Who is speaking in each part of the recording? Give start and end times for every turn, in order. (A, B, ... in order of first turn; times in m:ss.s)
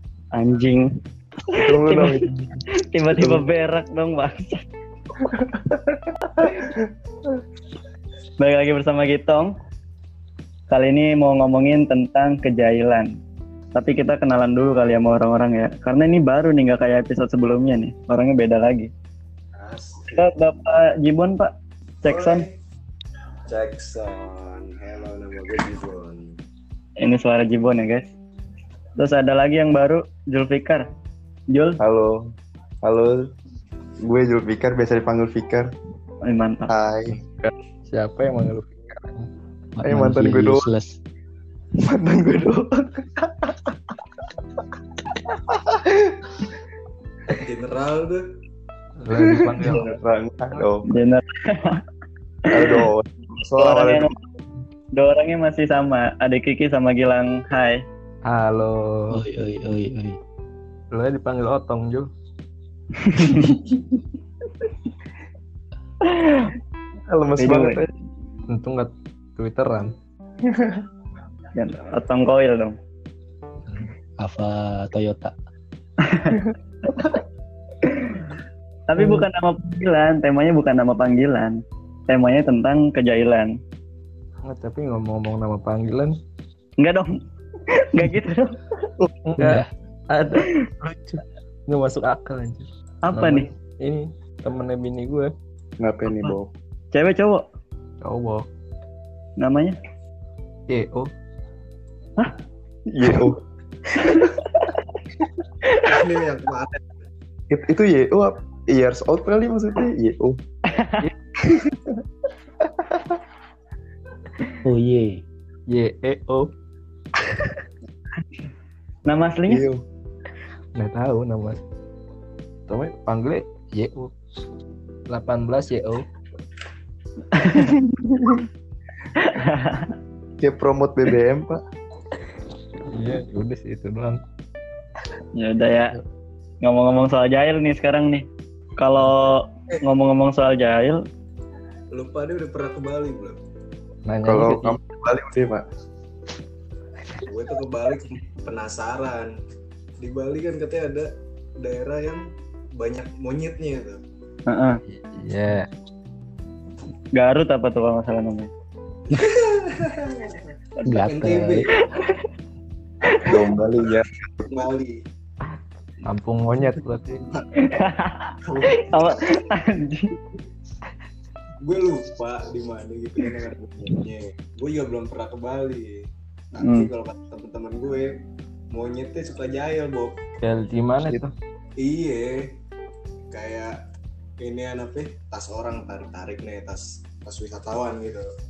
0:00.3-0:00.9 A
0:01.5-0:02.6 B
0:01.5-0:02.2 A
0:02.8-0:04.6 A
0:03.1-0:03.4 B
0:05.2-0:06.9 B
0:08.4-0:09.5 A
0:10.7-0:13.1 A
0:13.7-0:18.9 A
0:19.5-0:20.3 C
0:20.1-0:21.5 A
0:22.0-0:22.4 A
0:22.0-0:22.5 C
0:23.5-0:26.3 C
0:27.0-0:28.1 A
0:29.0-0:30.9 A
0:31.5-0:31.8 A
0:31.8-0:33.3 B
0:34.0-0:35.7 B
0:36.2-0:36.7 A
0:36.7-0:37.2 B
0:37.4-0:39.3 D
0:39.8-0:41.0 E
0:39.8-0:40.7 B
0:41.8-0:43.7 B
0:45.2-0:46.5 B
0:47.3-0:48.2 C
0:49.0-0:50.0 D
0:49.1-0:50.9 B
0:50.9-0:51.8 A
0:52.5-0:54.1 B
0:52.6-0:52.8 A
0:53.6-0:54.1 A
0:54.9-0:57.8 A
0:58.2-0:59.2 D
0:59.1-1:00.2 E
1:00.9-1:02.1 D
1:03.0-1:03.5 A
1:03.4-1:03.8 B
1:06.1-1:06.5 A
1:07.1-1:07.9 B
1:07.4-1:07.8 A
1:08.5-1:09.9 D
1:10.4-1:10.8 B
1:11.5-1:12.8 A
1:14.2-1:15.3 E
1:16.0-1:16.4 A
1:16.3-1:17.1 B
1:18.9-1:23.5 A
1:24.4-1:26.2 D
1:26.8-1:27.1 A
1:27.7-1:28.6 A
1:29.2-1:35.3 D
1:29.4-1:29.7 E
1:33.0-1:33.5 A
1:35.8-1:36.5 B
1:36.1-1:36.4 A
1:36.9-1:37.4 A
1:38.0-1:38.5 D
1:39.4-1:39.8 A
1:40.7-1:41.1 D
1:42.9-1:43.4 B
1:44.0-1:44.8 A
1:45.6-1:45.9 A
1:45.8-1:46.8 C
1:47.5-1:50.4 B
1:50.7-1:51.0 A
1:51.5-1:52.0 B
1:52.6-1:53.2 B
1:54.6-1:55.2 E
1:55.7-1:56.5 D
1:57.2-1:57.6 D
1:59.0-1:59.6 A
1:59.5-1:59.8 B
2:00.8-2:01.6 D
2:02.7-2:04.1 D
2:05.1-2:06.0 D
2:07.3-2:07.8 A
2:07.6-2:08.4 B
2:09.2-2:09.9 A
2:10.4-2:11.6 B
2:12.9-2:14.2 D
2:15.4-2:16.0 A
2:16.6-2:18.2 A
2:18.8-2:21.0 A
2:21.9-2:23.4 C
2:24.1-2:24.8 D
2:24.2-2:25.6 B
2:27.2-2:29.3 C
2:30.0-2:32.2 C
2:32.8-2:34.0 C
2:34.5-2:34.8 A
2:34.9-2:35.7 D
2:37.1-2:38.5 A
2:39.1-2:41.7 C
2:40.8-2:41.7 E
2:41.7-2:42.1 A
2:43.2-2:43.6 C
2:43.3-2:44.1 B
2:44.4-2:45.0 C
2:46.0-2:47.3 D
2:47.3-2:47.8 C
2:47.6-2:50.1 A
2:48.4-2:49.4 C
2:51.6-2:58.2 C
2:56.6-2:56.9 A
2:58.7-3:00.1 C
3:00.4-3:01.3 D
3:01.8-3:02.5 C
3:03.3-3:03.8 C
3:04.4-3:08.3 C